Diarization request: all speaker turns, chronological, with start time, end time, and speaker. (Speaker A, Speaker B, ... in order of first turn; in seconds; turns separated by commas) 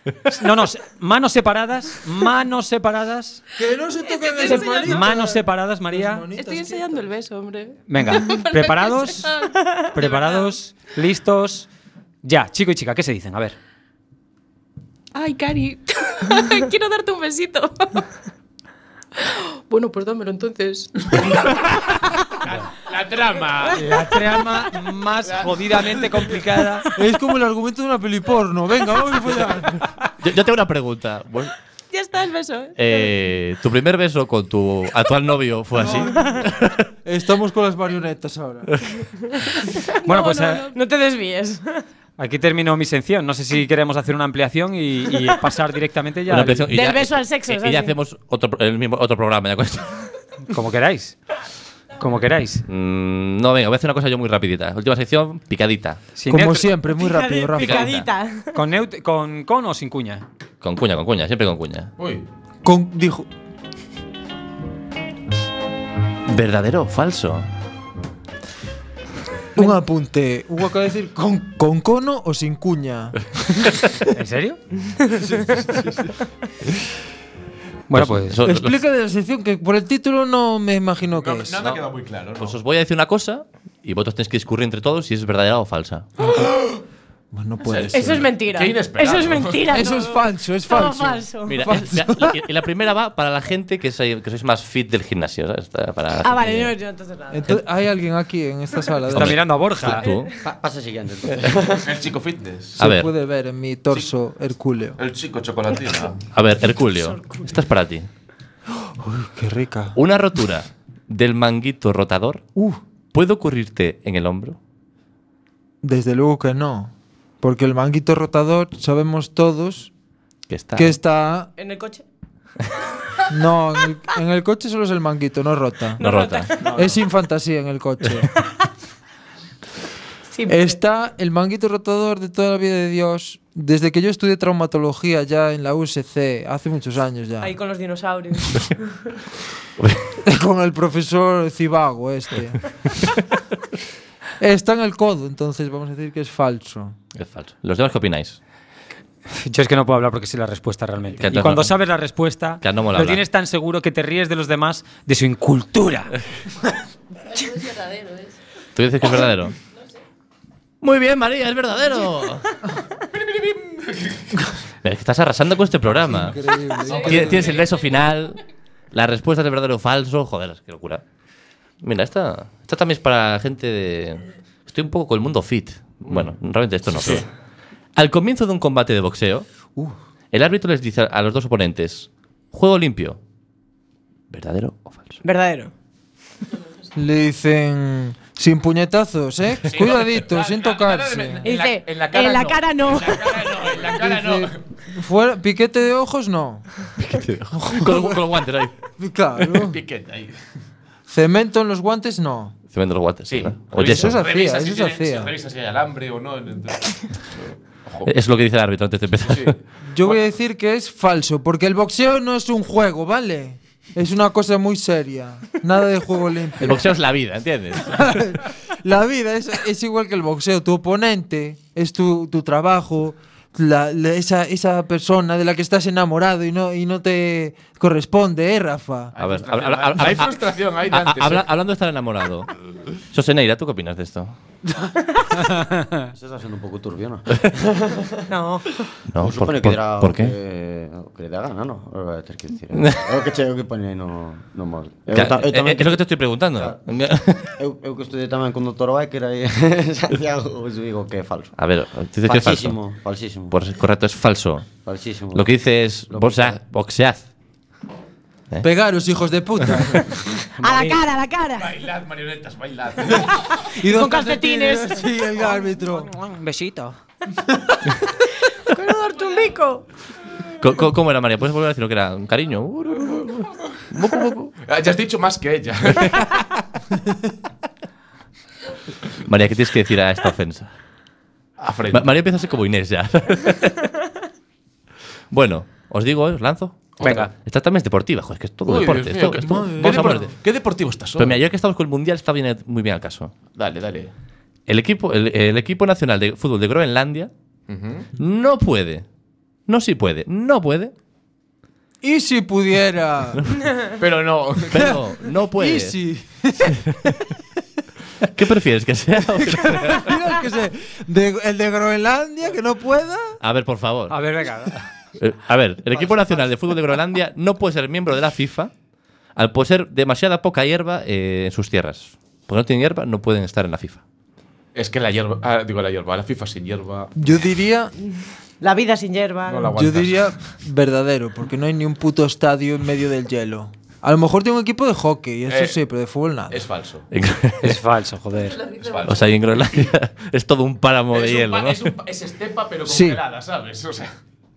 Speaker A: 0.2-3.4, Speaker B: 3.6-7.1, Speaker C: 4.1-5.1, Speaker A: 4.5-6.3, Speaker C: 6.3-10.6, Speaker A: 7.9-9.3, Speaker A: 9.9-11.7, Speaker A: 12.2-13.6, Speaker C: 15.1-18.0, Speaker C: 19.2-21.4, Speaker D: 22.4-24.1, Speaker A: 23.7-26.9, Speaker D: 25.2-26.4, Speaker B: 26.9-29.9, Speaker E: 30.2-31.5, Speaker C: 31.9-33.1, Speaker E: 32.8-36.8, Speaker B: 35.8-36.5, Speaker B: 37.0-38.8, Speaker A: 40.0-40.7, Speaker C: 40.1-40.8, Speaker F: 40.7-41.8, Speaker A: 42.2-46.7, Speaker E: 46.3-50.0, Speaker F: 46.7-47.9, Speaker A: 50.5-51.2, Speaker A: 52.0-52.6, Speaker E: 52.7-56.0, Speaker A: 56.2-56.7, Speaker B: 56.3-57.9, Speaker F: 56.9-58.5, Speaker E: 57.6-58.1, Speaker A: 58.5-60.2, Speaker E: 60.6-61.9, Speaker D: 62.0-62.3, Speaker B: 62.6-63.3, Speaker E: 66.3-67.5, Speaker B: 69.6-73.8, Speaker A: 74.1-74.6, Speaker B: 75.3-75.7, Speaker A: 77.9-78.4, Speaker E: 77.9-78.8, Speaker B: 78.4-81.7, Speaker D: 81.1-82.6, Speaker E: 82.4-86.1, Speaker D: 86.4-86.8, Speaker B: 87.3-88.2, Speaker D: 87.6-89.7, Speaker F: 87.9-91.7, Speaker B: 89.7-92.4, Speaker E: 91.5-96.7, Speaker F: 96.2-97.5, Speaker B: 97.3-99.4, Speaker E: 99.1-100.3, Speaker A: 99.1-100.1, Speaker G: 100.4-101.9, Speaker D: 101.8-102.8, Speaker B: 102.8-105.0, Speaker E: 102.8-103.1, Speaker D: 105.0-106.2, Speaker E: 106.3-108.1, Speaker F: 107.0-107.4, Speaker B: 108.8-110.0, Speaker E: 110.0-112.4, Speaker B: 112.6-112.8, Speaker E: 113.1-114.6, Speaker B: 115.8-119.9, Speaker E: 120.5-121.0, Speaker B: 120.8-121.5, Speaker F: 121.6-122.0, Speaker B: 123.3-126.0, Speaker F: 126.0-126.8, Speaker E: 126.0-126.5, Speaker D: 126.6-126.9, Speaker B: 126.7-128.3, Speaker F: 130.3-130.8, Speaker B: 130.5-137.5, Speaker F: 137.4-139.1, Speaker E: 139.8-140.0, Speaker B: 140.2-142.6, Speaker B: 144.4-147.0, Speaker E: 147.2-148.4, Speaker A: 149.3-156.1, Speaker E: 151.2-151.7, Speaker E: 152.6-153.2, Speaker C: 157.3-158.4, Speaker E: 158.8-159.6, Speaker E: 160.8-162.5, Speaker D: 163.1-164.2, Speaker E: 164.8-166.4, Speaker B: 166.1-167.5, Speaker D: 166.9-167.4, Speaker E: 166.9-168.4, Speaker E: 168.9-171.0, Speaker E: 171.8-177.3, Speaker D: 176.1-176.3, Speaker D: 176.9-177.2, Speaker E: 178.0-179.5, Speaker E: 180.3-183.2, Speaker E: 184.3-185.2, Speaker F: 185.2-185.7, Speaker B: 186.9-191.5, Speaker D: 189.7-194.6, Speaker F: 191.4-193.5, Speaker B: 193.9-196.7, Speaker E: 197.0-198.8, Speaker B: 197.5-198.2, Speaker B: 199.0-199.8, Speaker D: 199.6-200.4, Speaker B: 201.1-202.5, Speaker E: 202.7-204.2, Speaker D: 203.3-208.1, Speaker B: 203.8-205.3, Speaker E: 208.1-209.6, Speaker D: 209.2-210.2, Speaker B: 209.9-216.9, Speaker E: 216.6-218.4, Speaker B: 217.9-229.1, Speaker D: 229.2-231.5, Speaker E: 229.2-234.3, Speaker G: 236.1-238.2, Speaker F: 238.3-238.7, Speaker E: 239.1-240.3, Speaker G: 239.2-246.8, Speaker E: 242.7-243.0, Speaker E: 245.1-247.5, Speaker G: 247.6-251.6, Speaker E: 251.6-252.8, Speaker G: 252.2-253.6, Speaker E: 253.5-254.7, Speaker G: 254.8-255.5, Speaker E: 255.3-257.3, Speaker G: 256.1-256.6, Speaker B: 258.6-260.1, Speaker F: 260.6-261.8, Speaker A: 260.6-261.0, Speaker D: 261.6-263.7, Speaker B: 263.8-266.1, Speaker F: 263.8-265.1, Speaker A: 265.7-267.0, Speaker F: 268.6-269.9, Speaker E: 270.6-274.5, Speaker D: 274.7-276.3, Speaker E: 279.2-280.7, Speaker D: 281.6-282.2, Speaker E: 281.9-283.8, Speaker E: 285.3-290.3, Speaker D: 287.0-287.3, Speaker A: 287.0-287.3, Speaker D: 288.7-291.4, Speaker B: 289.4-290.3, Speaker E: 291.2-293.3, Speaker D: 293.6-294.1, Speaker E: 294.7-297.3, Speaker D: 297.7-298.1, Speaker E: 298.2-299.1, Speaker E: 299.7-300.9, Speaker B: 302.0-303.4, Speaker D: 304.0-305.0, Speaker E: 304.7-306.0, Speaker B: 305.6-307.3, Speaker E: 306.7-307.0, Speaker E: 308.2-310.2, Speaker B: 309.4-313.4, Speaker E: 313.4-314.2, Speaker A: 314.1-314.8, Speaker E: 315.2-318.7, Speaker E: 319.4-324.0, Speaker D: 324.8-327.1, Speaker B: 327.2-327.9, Speaker F: 328.6-329.8, Speaker D: 329.5-330.3, Speaker B: 329.7-336.6, Speaker D: 335.5-335.8, Speaker D: 336.5-337.1, Speaker E: 337.1-337.8, Speaker A: 337.6-338.6, Speaker C: 338.4-339.1, Speaker D: 338.8-339.2, Speaker E: 339.1-341.9, Speaker D: 341.1-344.1, Speaker B: 342.9-343.2